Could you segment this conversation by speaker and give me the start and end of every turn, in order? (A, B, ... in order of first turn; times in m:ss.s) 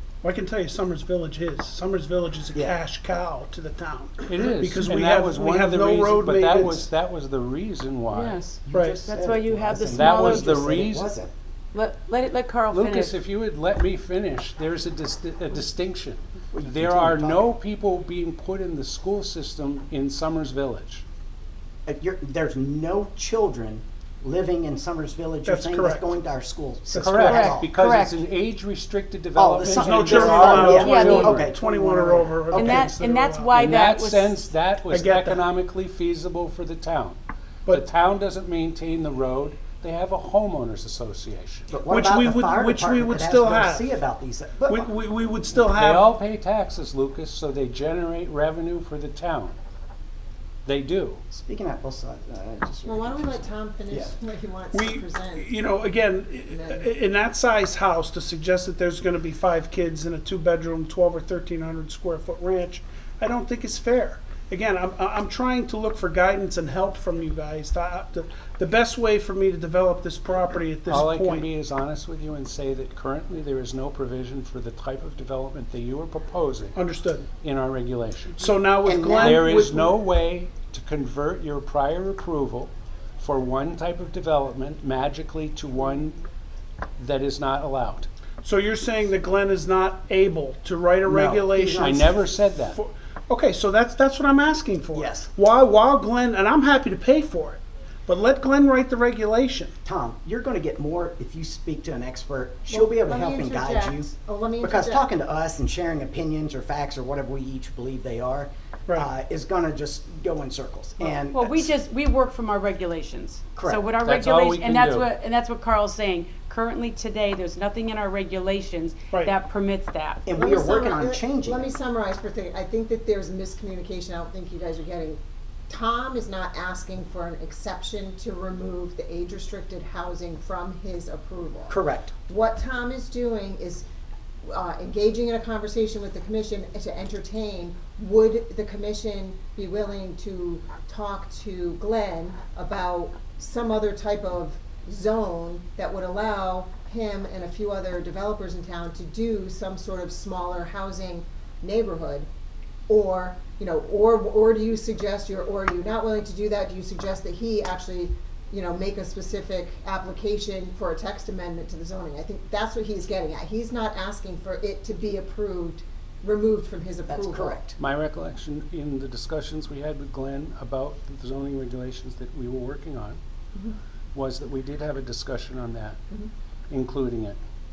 0:00.2-0:06.9 A
0:04.2-0:08.4 B
0:08.1-0:10.8 C
0:08.6-0:11.3 D
0:08.7-0:09.0 A
0:09.9-0:11.1 B
0:11.7-0:13.2 C
0:12.7-0:21.0 B
0:16.5-0:17.5 D
0:21.8-0:27.7 D
0:25.4-0:26.1 A
0:26.9-0:27.4 A
0:27.0-0:31.5 B
0:27.3-0:28.2 C
0:29.3-0:32.9 D
0:29.7-0:33.7 A
0:30.5-0:31.4 C
0:32.5-0:34.4 C
0:33.5-0:41.7 B
0:34.9-0:35.4 A
0:41.7-0:44.9 D
0:41.9-0:43.9 A
0:44.7-0:46.1 A
0:45.8-0:49.6 B
0:50.6-0:51.2 B
0:51.3-0:54.1 D
0:52.8-0:55.5 E
0:54.7-1:11.5 A
0:56.5-0:56.9 E
1:10.8-1:16.8 B
1:16.7-1:17.3 A
1:17.4-1:18.5 B
1:18.4-1:19.9 A
1:18.8-1:19.5 D
1:19.2-1:26.2 B
1:27.0-1:28.1 B
1:28.4-1:39.7 A
1:31.0-1:32.0 D
1:31.8-1:32.8 B
1:34.9-1:35.3 D
1:39.8-1:51.7 D
1:42.7-1:45.1 E
1:51.3-2:00.2 C
1:54.0-1:55.1 B
2:00.2-2:01.7 D
2:00.3-2:11.7 E
2:11.7-2:12.1 D
2:12.3-2:13.8 E
2:14.4-2:32.3 E
2:32.9-2:47.6 E
2:47.1-2:47.8 D
2:47.8-2:53.2 B
2:54.1-2:56.0 B
2:56.7-2:57.4 B